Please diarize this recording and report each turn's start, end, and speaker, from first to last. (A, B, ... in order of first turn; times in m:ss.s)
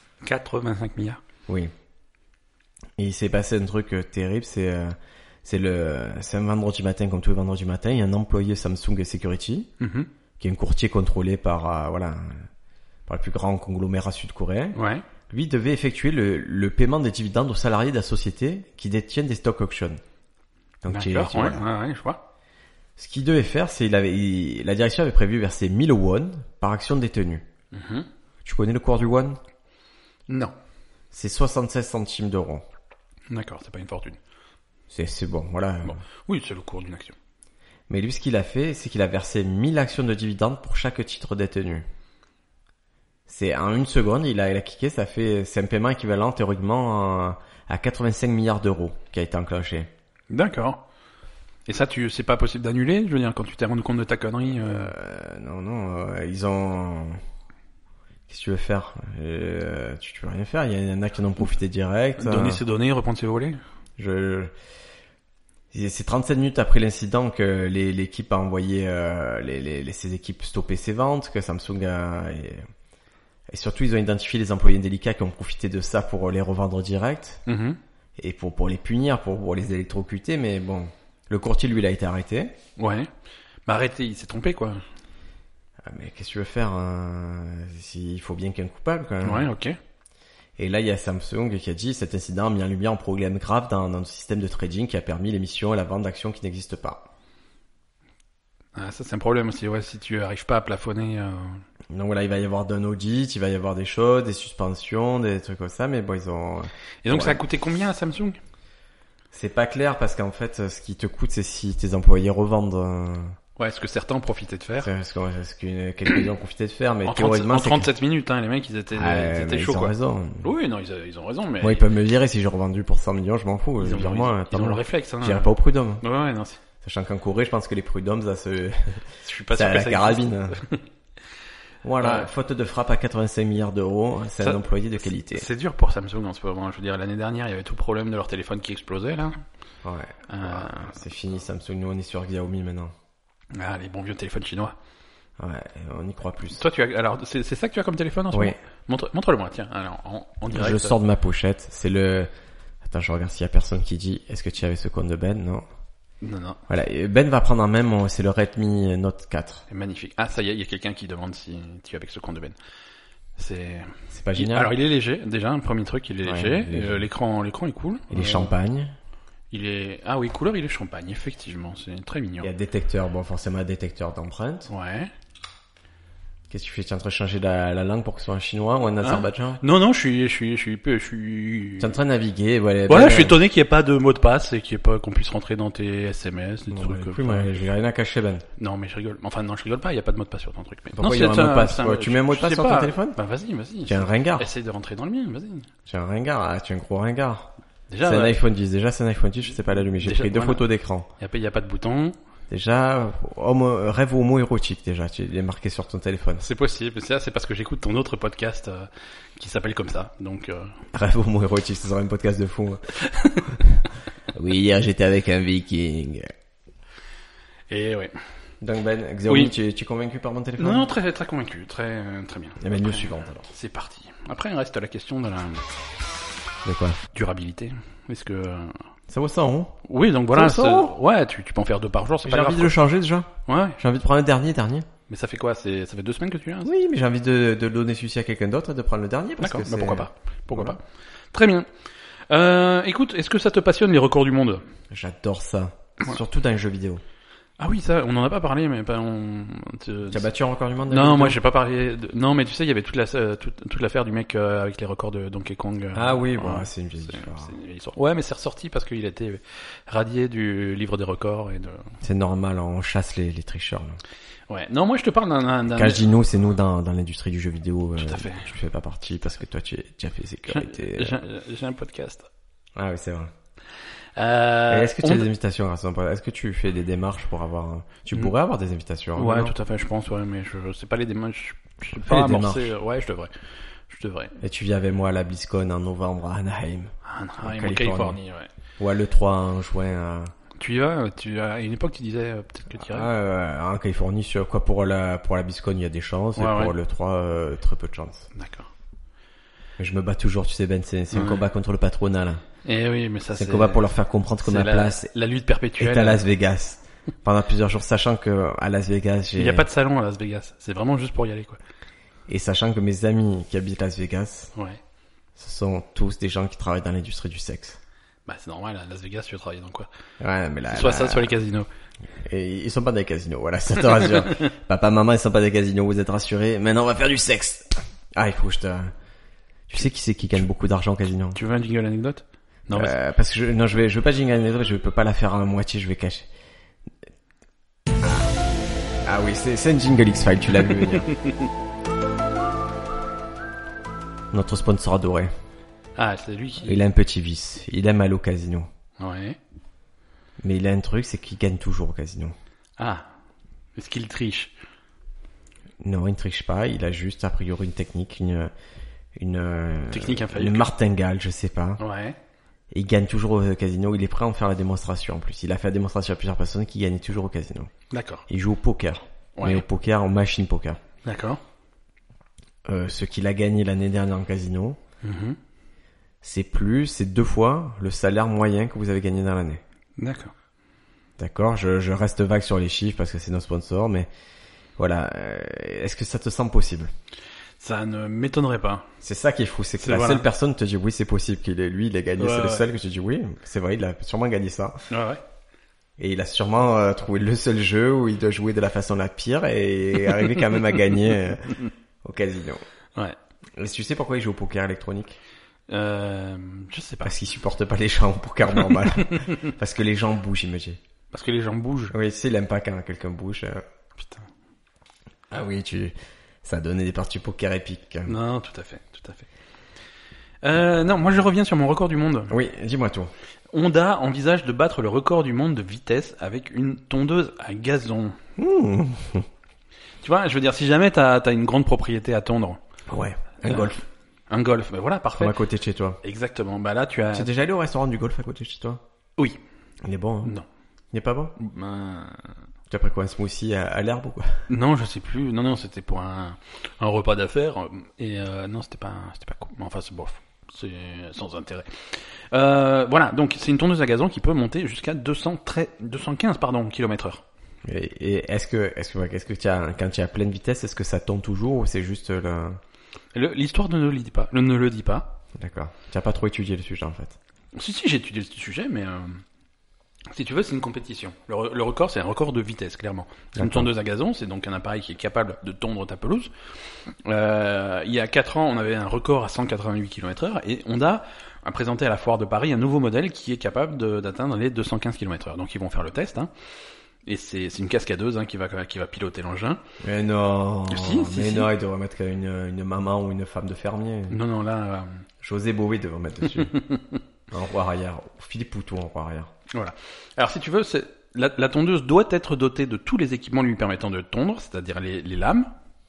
0:00.2-0:01.2 A
0:03.0-0:09.7 B
0:09.8-0:10.1 A
0:10.4-0:12.5 B
0:13.1-0:14.8 B
0:14.8-0:15.0 A
0:15.3-0:20.0 B
0:20.8-0:21.6 B
0:20.9-0:22.2 A
0:23.0-0:27.5 B
0:27.7-0:28.1 A
0:28.4-0:29.4 B
0:30.3-0:30.5 A
0:31.1-0:32.6 B
0:33.3-0:34.2 A
0:34.9-0:36.0 B
0:35.8-0:37.2 A
0:37.9-0:41.9 B
0:43.3-0:49.9 B
0:50.3-0:50.8 A
0:51.7-0:54.9 A
0:54.6-0:57.2 B
0:58.3-1:02.6 B
1:02.2-1:03.6 A
1:04.0-1:04.5 B
1:05.7-1:12.6 B
1:13.5-1:17.4 B
1:17.5-1:17.8 A
1:18.2-1:22.5 B
1:22.8-1:23.1 A
1:23.6-1:24.8 A
1:25.8-1:29.5 B
1:29.2-1:29.8 A
1:30.6-1:37.1 B
1:38.8-1:41.6 A
1:41.9-1:47.4 B
1:47.0-1:48.4 A
1:49.3-1:53.4 B
1:53.6-1:54.9 A
1:54.8-1:57.9 B
1:57.0-2:01.9 A
1:58.9-2:00.5 B
2:01.6-2:06.0 B
2:03.8-2:06.6 A
2:06.8-2:10.6 B
2:09.2-2:10.8 A
2:11.8-2:15.5 B
2:12.0-2:12.3 A
2:14.4-2:19.4 A
2:19.8-2:22.9 B
2:20.3-2:21.0 A
2:23.5-2:24.8 A
2:25.4-2:26.6 B
2:26.5-2:31.0 A
2:30.5-2:32.3 B
2:32.8-2:35.6 B
2:36.2-2:36.6 A
2:36.7-2:39.6 B
2:39.7-2:42.6 A
2:43.4-2:48.5 A
2:44.1-2:44.7 B
2:46.2-2:47.0 B
2:48.1-2:48.9 B
2:49.5-2:52.5 A
2:52.4-2:54.7 B
2:54.7-2:55.1 A
2:56.5-2:59.6 B
2:59.0-3:02.0 A
3:01.8-3:03.4 B
3:02.9-3:07.5 A
3:06.7-3:08.4 B
3:08.6-3:15.7 A
3:10.9-3:13.2 B
3:13.9-3:14.5 B
3:15.9-3:17.5 B
3:17.9-3:18.4 A
3:18.0-3:21.1 B
3:20.0-3:20.6 A
3:21.2-3:22.2 A
3:22.5-3:26.4 B
3:26.4-3:30.8 A
3:30.9-3:32.9 B
3:33.0-3:33.6 A
3:34.3-3:36.3 B
3:37.7-3:38.2 A
3:38.6-3:40.9 B
3:39.3-3:39.5 A
3:40.6-3:45.6 A
3:42.6-3:43.5 B
3:46.6-3:47.0 B
3:47.1-3:48.8 A
3:49.1-3:49.8 B
3:49.8-3:52.8 A
3:50.3-3:50.9 B
3:52.2-3:54.9 B
3:53.5-3:53.8 A
3:55.1-3:56.7 A
3:56.6-4:00.8 B
3:59.4-4:00.8 A
4:01.3-4:01.7 A
4:02.3-4:04.6 A
4:04.9-4:07.0 B
4:07.6-4:10.2 A
4:10.1-4:11.4 B
4:10.9-4:21.9 A
4:15.9-4:17.5 B
4:22.0-4:24.0 B
4:24.5-4:26.0 A
4:25.7-4:31.2 B
4:28.0-4:28.5 A
4:30.5-4:32.3 A
4:32.8-4:33.3 B
4:34.2-4:35.3 A
4:34.7-4:39.5 B
4:39.2-4:43.3 A
4:42.0-4:42.7 B
4:43.9-4:44.4 A
4:44.4-4:48.2 B
4:47.0-4:48.5 A
4:48.8-4:50.3 B
4:50.6-4:53.1 A
4:52.8-4:58.3 B
4:56.4-4:56.7 A
4:58.3-4:58.7 A
4:59.8-5:02.4 B
5:01.1-5:01.4 A
5:02.6-5:03.8 A
5:03.4-5:05.1 B
5:04.4-5:06.2 A
5:05.8-5:09.6 B
5:09.4-5:11.6 A
5:12.3-5:14.5 B
5:15.4-5:17.8 B
5:18.2-5:19.9 A
5:20.2-5:21.3 B
5:20.7-5:21.7 A
5:22.2-5:28.9 B
5:29.7-5:31.4 B
5:31.4-5:33.0 A
5:32.7-5:36.3 B
5:38.0-5:38.3 B
5:39.0-5:41.1 B
5:40.8-5:41.5 A
5:44.3-5:45.3 B
5:46.0-5:46.8 A
5:46.6-5:48.7 B
5:49.0-5:49.4 A
5:50.4-5:52.4 B
5:52.8-5:53.0 A
5:53.8-5:54.5 A
5:55.8-5:58.5 B
5:59.2-6:01.8 B
5:59.9-6:00.7 A
6:01.8-6:02.2 A
6:02.7-6:07.7 B
6:07.9-6:08.2 A
6:08.3-6:10.8 B
6:09.4-6:09.6 A
6:11.0-6:11.4 A
6:12.7-6:14.8 B
6:15.0-6:15.4 A
6:16.2-6:19.6 B
6:20.0-6:20.3 A
6:21.2-6:24.1 B
6:24.8-6:26.9 B
6:27.6-6:28.9 A
6:29.0-6:34.9 B
6:29.8-6:30.2 A
6:32.2-6:32.7 A
6:34.9-6:35.2 A
6:36.0-6:42.6 B
6:43.6-6:45.2 B
6:45.7-6:47.1 A
6:47.0-6:50.8 B
6:49.1-6:49.4 A
6:51.1-6:52.0 A
6:51.9-6:53.6 B
6:54.0-6:54.3 A
6:55.3-6:55.9 B
6:56.4-6:58.1 B
6:58.0-6:59.3 A
7:00.4-7:02.4 A
7:02.3-7:03.1 B
7:03.5-7:08.2 A
7:08.4-7:09.3 B
7:10.0-7:12.6 A
7:12.9-7:13.8 B
7:13.4-7:15.4 A
7:15.1-7:16.0 B
7:16.0-7:17.3 A
7:17.1-7:18.8 B
7:19.8-7:20.3 B
7:20.9-7:21.4 B
7:21.4-7:22.3 A
7:22.7-7:24.4 B
7:24.5-7:37.2 A
7:37.6-7:42.6 B
7:43.1-7:45.1 A
7:45.4-7:47.2 B
7:47.5-7:49.2 A
7:50.1-7:56.3 A
7:53.4-7:53.7 B
7:57.0-8:06.3 A
8:07.0-8:09.6 A
8:09.8-8:14.2 B
8:10.7-8:11.5 A
8:14.1-8:15.0 A
8:15.2-8:16.6 B
8:16.4-8:17.0 A
8:17.3-8:19.3 B
8:19.5-8:25.5 A